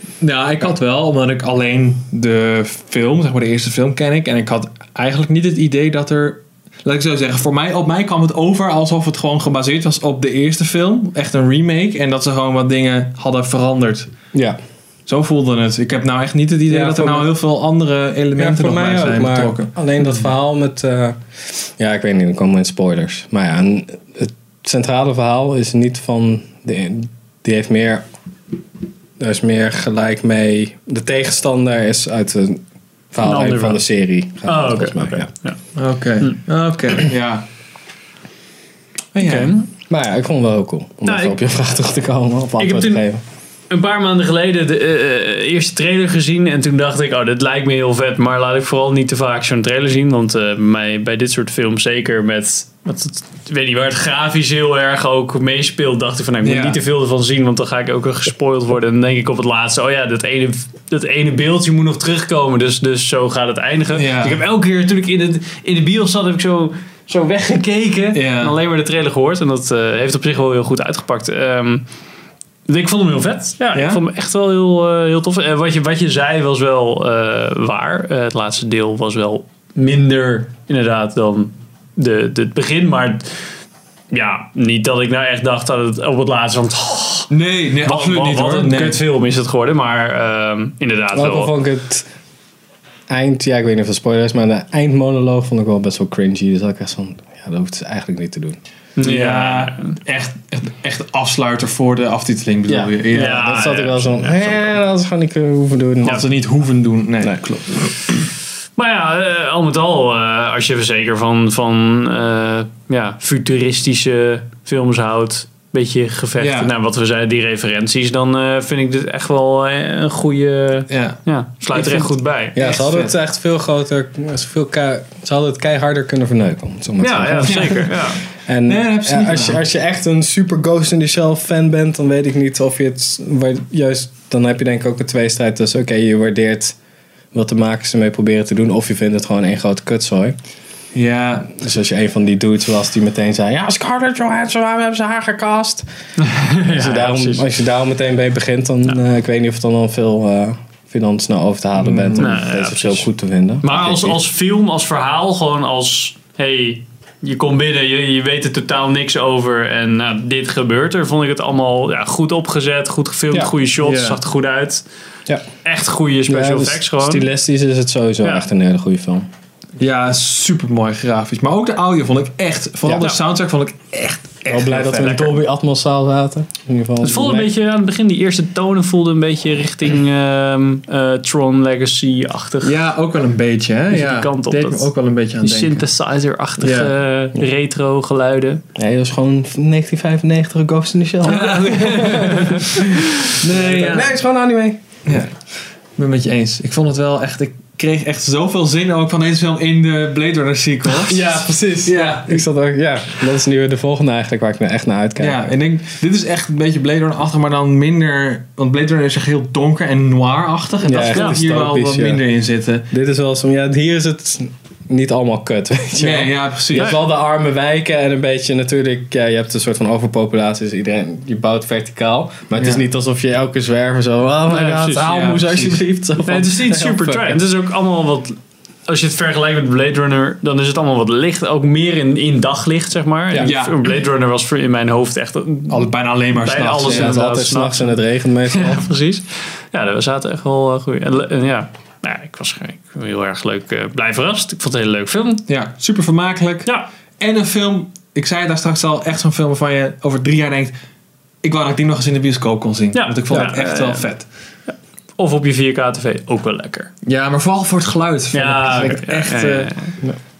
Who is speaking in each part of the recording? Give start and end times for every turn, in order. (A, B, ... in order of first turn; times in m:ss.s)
0:00.2-0:14.1 A
0:15.1-0:19.7 A
0:16.7-0:17.3 B
0:18.4-0:28.0 B
0:29.2-0:32.6 B
0:33.1-0:35.3 B
0:33.2-0:33.8 C
0:34.4-0:35.6 C
0:35.7-0:37.4 A
0:39.1-0:39.5 A
0:39.2-0:39.7 C
0:39.9-0:43.2 B
0:41.0-0:41.4 C
0:42.6-0:43.0 C
0:43.7-1:11.8 C
0:56.4-0:56.8 A
1:03.9-1:04.4 A
1:08.1-1:08.6 A
1:12.7-1:23.3 C
1:13.7-1:14.0 A
1:24.1-1:27.3 C
1:27.3-1:29.0 A
1:27.8-1:31.5 C
1:31.1-1:32.0 B
1:33.1-1:38.6 B
1:39.0-1:40.0 C
1:39.0-1:43.7 A
1:42.7-1:44.2 C
1:43.1-1:46.2 B
1:46.0-1:48.0 A
1:48.8-2:02.6 C
1:56.4-1:56.7 A
2:00.9-2:03.1 A
2:02.6-2:16.8 B
2:07.0-2:08.2 C
2:07.4-2:09.6 A
2:17.3-2:20.3 B
2:20.9-2:21.5 A
2:21.5-2:25.8 B
2:26.2-2:27.4 C
2:26.6-2:34.2 B
2:31.8-2:32.3 A
2:32.2-2:33.1 C
2:33.6-2:44.8 C
2:43.8-2:44.2 A
2:45.6-2:47.2 C
2:46.3-2:49.2 B
2:49.8-2:55.2 A
2:54.5-2:57.5 B
2:55.0-2:55.4 C
2:57.0-3:02.8 C
3:02.6-3:05.8 A
3:03.9-3:08.6 C
3:06.6-3:06.9 A
3:08.8-3:14.8 B
3:11.2-3:12.7 A
3:11.7-3:13.0 C
3:13.3-3:14.1 A
3:15.0-3:15.3 A
3:16.0-3:22.4 A
3:21.0-3:25.4 B
3:25.2-3:32.9 A
3:30.8-3:32.2 B
3:31.1-3:31.4 C
3:32.9-3:47.4 B
3:36.0-3:37.0 A
3:42.6-3:42.8 A
3:44.5-3:45.0 C
3:45.0-3:45.8 A
3:46.2-4:05.4 C
3:53.4-3:53.8 A
3:55.7-3:57.2 A
3:56.8-3:58.9 B
4:05.5-4:10.7 A
4:11.4-4:14.2 A
4:12.9-4:14.1 C
4:14.7-4:16.9 C
4:17.0-4:19.7 A
4:18.3-4:19.9 C